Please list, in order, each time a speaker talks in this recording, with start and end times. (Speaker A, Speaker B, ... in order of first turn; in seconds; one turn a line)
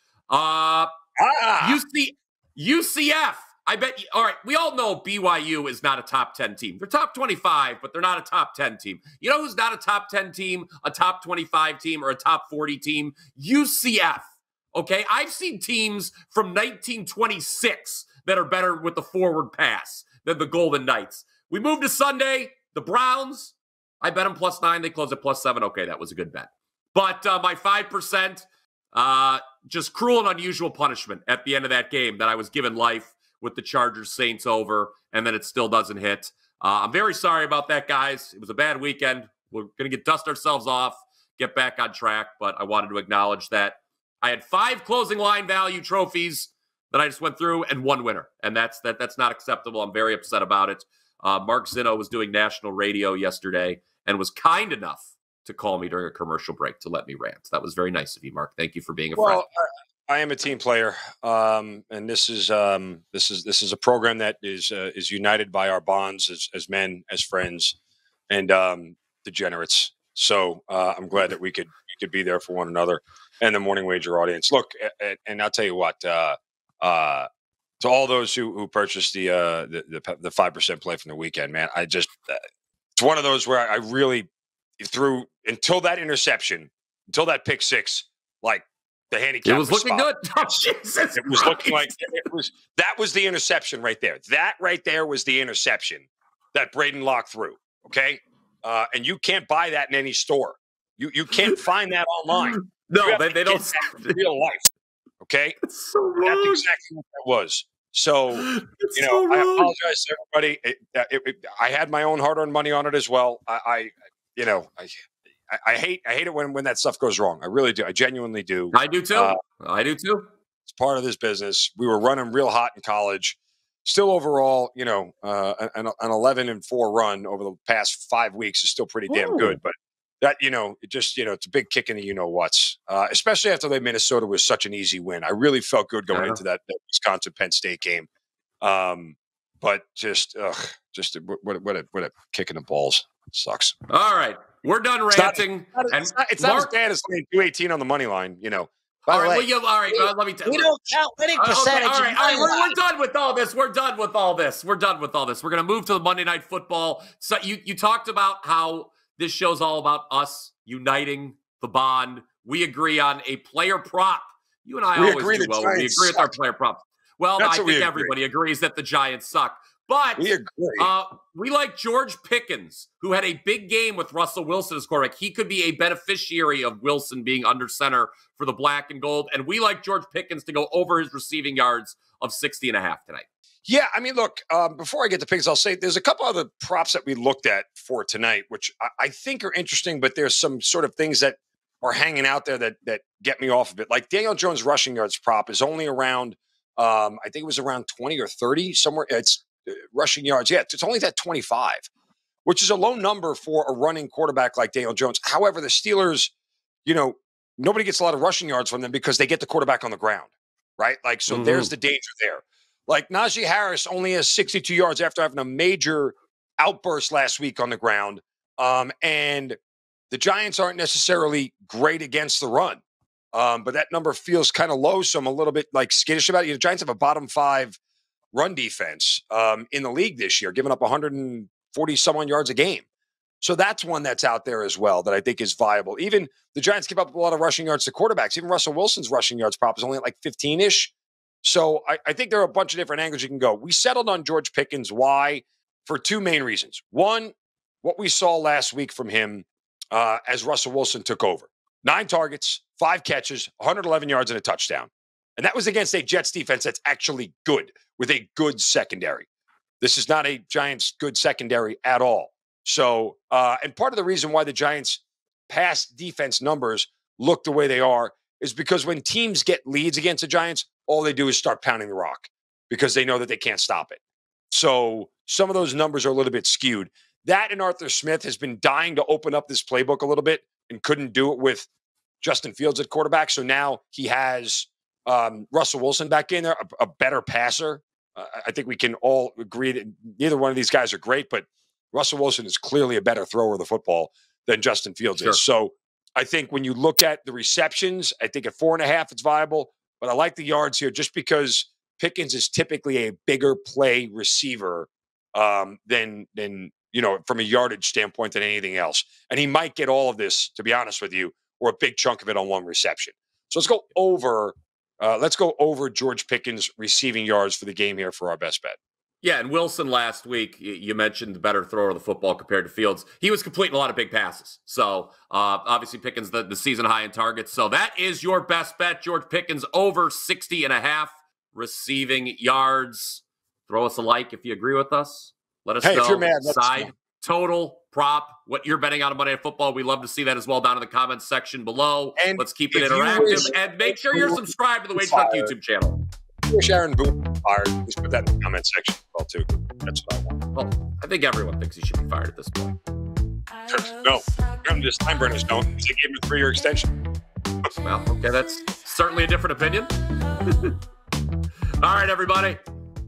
Speaker A: 0.3-0.9
Speaker B: 1.2-1.8
Speaker A: 1.6-59.4
Speaker B: 59.2-67.8
Speaker B: 68.3-77.3
Speaker B: 77.8-82.4
Speaker B: 83.0-84.3
Speaker B: 84.8-90.5
Speaker A: 89.5-91.9
Speaker B: 91.2-104.7
Speaker A: 102.3-104.2
Speaker B: 105.2-105.6
Speaker A: 105.6-106.6
Speaker B: 106.2-114.9
Speaker A: 108.3-109.7
Speaker B: 115.5-119.4
Speaker A: 118.7-120.3
Speaker B: 120.7-138.1
Speaker A: 129.1-129.6
Speaker A: 136.1-136.4
Speaker B: 138.6-143.7
Speaker A: 143.9-146.7
Speaker B: 145.1-149.5
Speaker A: 149.1-150.8
Speaker C: 150.4-152.8
Speaker A: 151.4-183.3
Speaker B: 152.2-152.5
Speaker B: 165.0-166.3
Speaker B: 167.4-168.1
Speaker B: 170.2-170.9
Speaker B: 183.7-201.8
Speaker B: 202.4-206.3
Speaker B: 206.8-219.6
Speaker A: 211.3-211.7
Speaker B: 220.1-227.8
Speaker B: 228.3-232.9
Speaker B: 233.4-240.9
Speaker B: 241.4-259.3
Speaker B: 259.8-274.0
Speaker B: 274.5-281.7
Speaker B: 282.2-318.8
Speaker A: 319.2-346.0
Speaker B: 335.8-336.9
Speaker B: 342.2-345.5
Speaker B: 346.5-350.4
Speaker A: 350.5-352.8
Speaker B: 353.7-356.9
Speaker A: 357.8-360.8
Speaker A: 361.8-362.6